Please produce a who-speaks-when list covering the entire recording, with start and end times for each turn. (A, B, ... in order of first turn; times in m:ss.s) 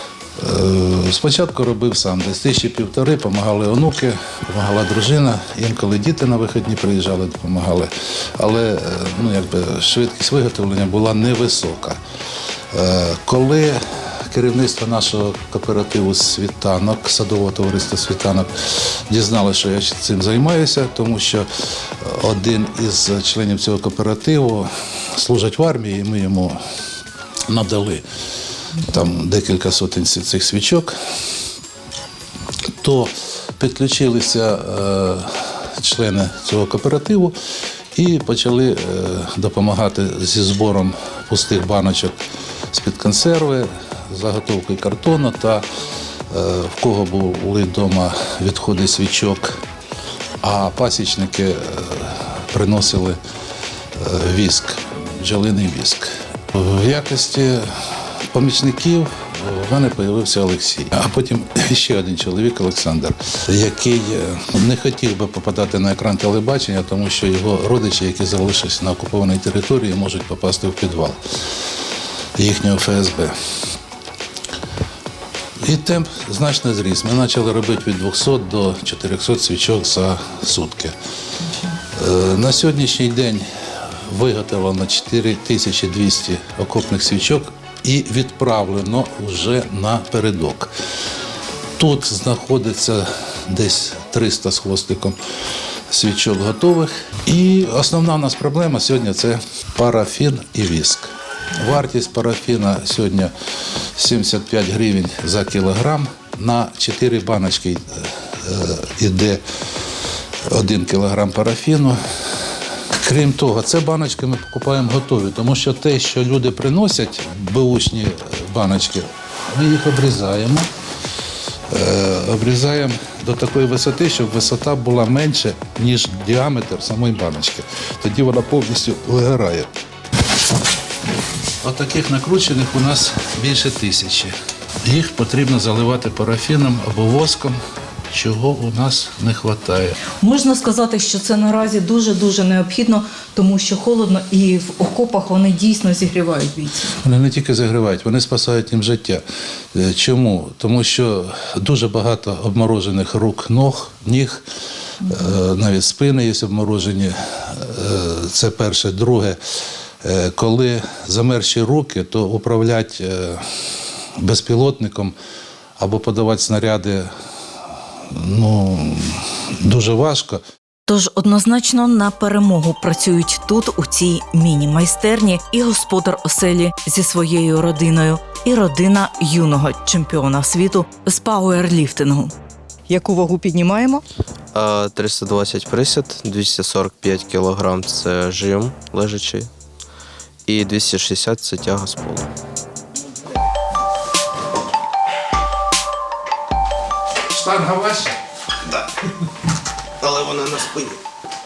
0:00.4-0:12.0 A
0:12.7-0:26.6 A
0:27.5-0:28.0 A
0:28.8-0:30.9 A
0:32.8-0:37.3 A
0:37.9-0:42.2 A
0:42.7-0:45.6 A
0:46.3-0:49.6 A
0:50.4-0:53.2 A
0:53.9-1:11.8 A
1:12.4-1:13.4 A
1:15.6-1:20.9 A
1:21.9-1:30.7 A
1:31.8-1:35.2 A
1:35.9-2:00.7 A
2:01.7-2:09.7 A
2:11.6-2:17.6 A
2:18.1-2:20.0 A
2:20.2-2:27.0 B
2:27.0-2:29.2 A
2:29.7-2:34.4 A
2:35.0-2:45.1 A
2:35.0-2:35.3 B
2:45.8-2:47.1 A
2:47.7-2:50.4 A
2:50.9-3:02.3 B
3:02.9-3:04.0 B
3:04.5-3:09.5 C
3:10.4-3:12.3 C
3:17.3-3:18.2 A
3:20.0-3:21.0 A